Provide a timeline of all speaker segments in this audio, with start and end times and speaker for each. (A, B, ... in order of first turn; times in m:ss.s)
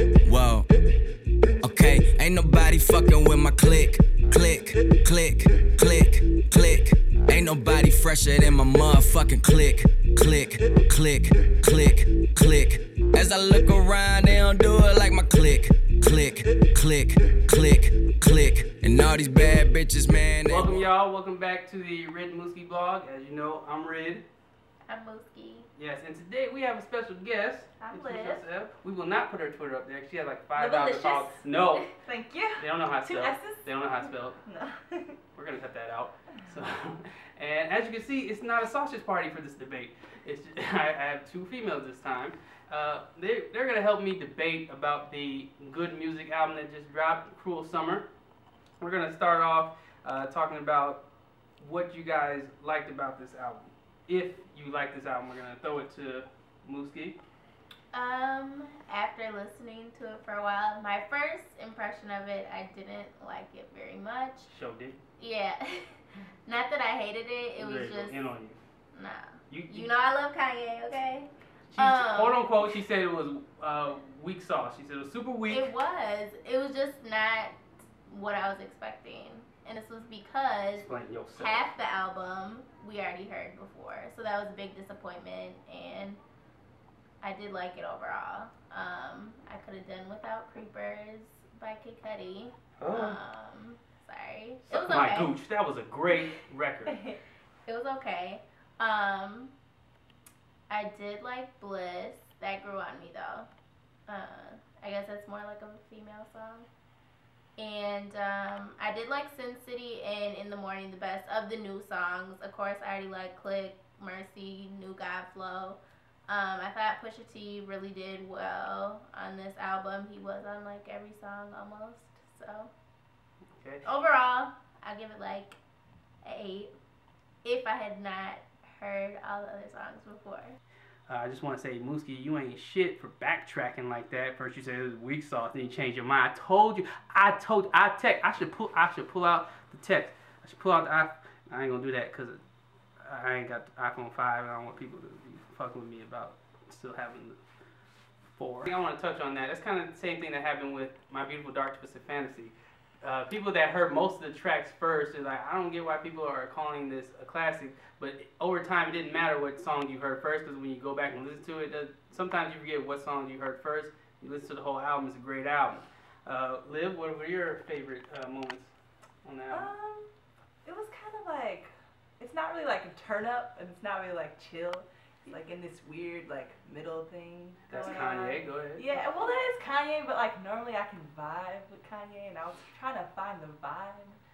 0:00.2-0:00.7 A
0:01.6-0:20.8 A
0:20.4-0:24.2 B
0:24.8-0:25.7 C
0:25.8-0:31.9 B
0:27.8-0:28.4 D
0:30.6-0:35.2 D
0:32.5-0:34.4 B
0:35.3-0:48.0 B
0:48.8-0:51.0 B
0:51.6-0:57.2 B
0:57.9-1:04.5 C
1:04.5-1:05.0 B
1:05.2-1:08.3 C
1:07.6-1:08.6 B
1:08.9-1:12.6 C
1:09.5-1:09.9 B
1:11.7-1:15.7 B
1:15.5-1:26.2 C
1:20.8-1:21.7 B
1:27.2-1:35.3 C
1:32.8-1:33.2 B
1:34.7-1:37.0 B
1:36.9-1:37.2 D
1:37.6-1:39.5 C
1:40.7-1:43.5 C
1:44.1-1:46.7 C
1:47.6-2:02.7 C
2:03.5-2:03.8 B
2:03.8-2:05.6 C
2:06.2-2:06.7 C
2:07.4-2:10.6 C
2:11.1-2:22.4 B
2:23.0-2:27.4 B
2:28.3-2:48.7 B
2:49.2-2:49.7 B
2:49.5-2:50.1 D
2:50.6-3:04.2 D
2:57.7-2:58.8 B